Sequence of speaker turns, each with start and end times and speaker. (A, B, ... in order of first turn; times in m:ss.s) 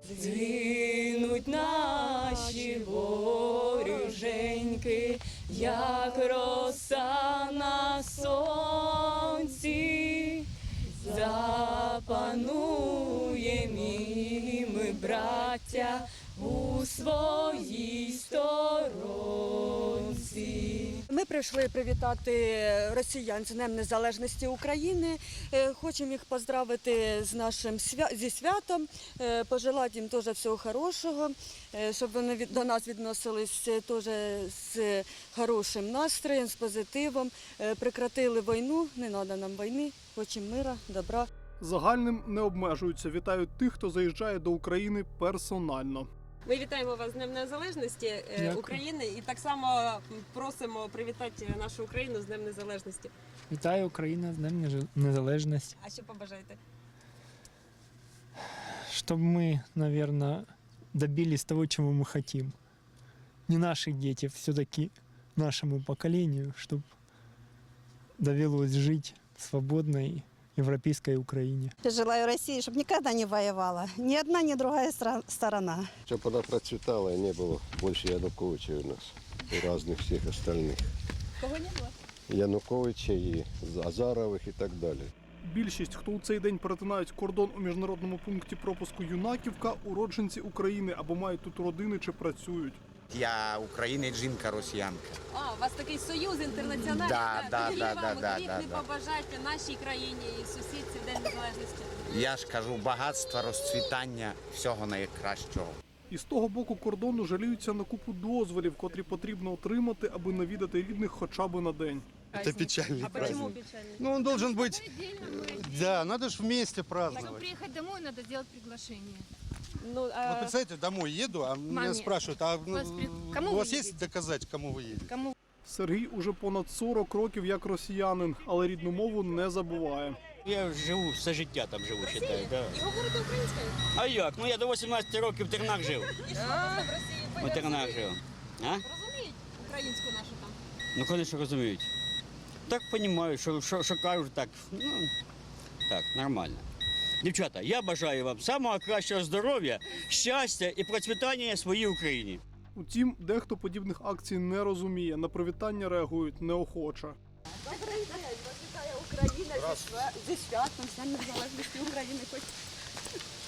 0:00.1-0:21.0 A
0:21.1-0:41.3 B
0:41.6-0:46.1 C
0:46.4-0:53.1 D
0:48.4-0:48.8 E
0:53.5-0:55.8 E
0:55.8-0:56.6 D
0:58.9-1:02.6 E
1:03.5-1:06.9 E
1:08.2-1:11.7 E
1:11.8-1:15.9 F
1:16.1-1:20.8 G
1:21.4-1:22.0 D
1:22.3-1:25.1 G
1:25.4-1:32.8 C
1:33.1-1:35.2 H
1:35.3-1:42.0 D
1:36.8-1:38.9 H
1:42.1-1:45.8 H
1:46.1-1:52.1 C
1:52.4-1:57.5 I
1:53.0-1:54.7 D
1:57.3-1:59.2 J
1:59.8-2:00.6 D
2:00.2-2:05.2 I
2:01.7-2:02.1 J
2:02.8-2:03.9 J
2:05.6-2:10.2 C
2:10.4-2:12.8 K
2:12.0-2:13.8 D
2:13.9-2:16.2 K
2:16.1-2:18.1 D
2:17.4-2:18.8 K
2:18.8-2:20.6 D
2:21.0-2:21.9 K
2:22.7-2:25.1 K
2:25.9-2:26.6 K
2:27.2-2:32.4 K
2:32.8-2:37.2 C
2:37.7-2:42.6 B